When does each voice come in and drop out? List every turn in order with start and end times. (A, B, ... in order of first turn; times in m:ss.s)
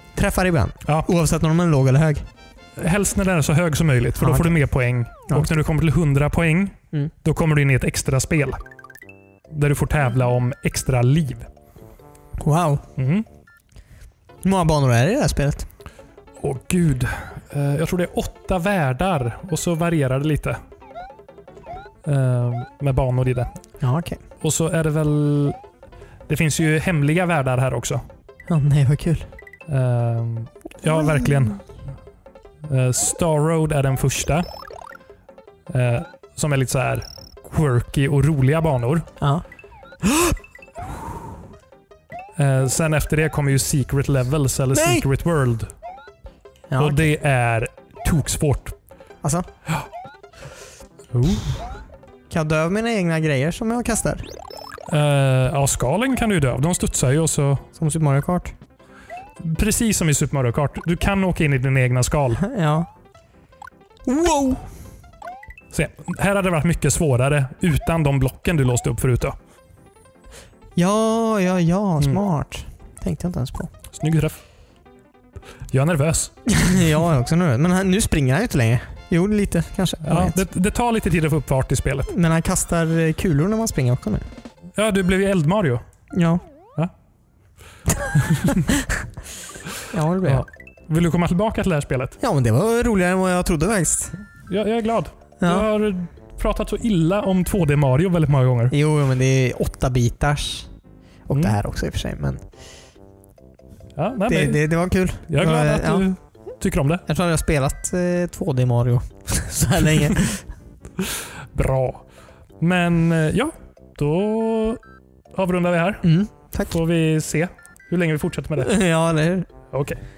0:00.2-0:02.2 A
0:02.8-0:08.6 B
0:04.2-0:04.6 A
0:09.5-0:11.5 B
0:12.4-0:12.8 A
0:13.0-0:13.2 B
0:14.4-0:15.7 A
0:16.4-0:20.6 B
0:22.0-0:23.5 B
0:23.8-0:24.2 A
0:24.4-0:25.6 B
0:26.3-0:28.0 B
0:28.5-0:29.3 A
0:29.7-0:31.7 B
0:32.7-0:34.5 B
0:35.7-0:39.1 B
0:39.2-0:39.4 A
0:40.1-0:40.3 A
0:42.4-0:45.7 B
0:44.7-0:45.1 A
0:46.7-0:47.1 A
0:46.8-0:48.7 B
0:51.1-0:51.7 B
0:52.3-0:54.2 A
0:54.9-0:57.6 B
0:57.8-0:58.5 A
0:59.4-1:02.4 B
1:02.4-1:02.9 A
1:04.0-1:04.7 A
1:05.7-1:09.4 B
1:10.8-1:13.7 A
1:13.9-1:14.4 B
1:15.7-1:16.3 B
1:16.5-1:20.4 A
1:20.0-1:22.1 B
1:22.1-1:24.3 A
1:24.8-1:25.8 B
1:26.1-1:26.4 A
1:29.9-1:30.5 A
1:30.2-1:32.2 B
1:32.2-1:34.2 A
1:34.5-1:38.8 B
1:35.4-1:35.7 A
1:38.7-1:40.7 A
1:41.3-1:42.4 A
1:41.3-1:41.6 B
1:44.0-1:47.0 B
1:44.3-1:46.1 A
1:47.1-1:50.4 A
1:51.5-1:52.0 B
1:52.6-1:54.8 B
1:55.3-1:58.7 B
1:56.0-1:56.7 A
1:58.6-1:59.5 A
1:59.7-2:00.0 B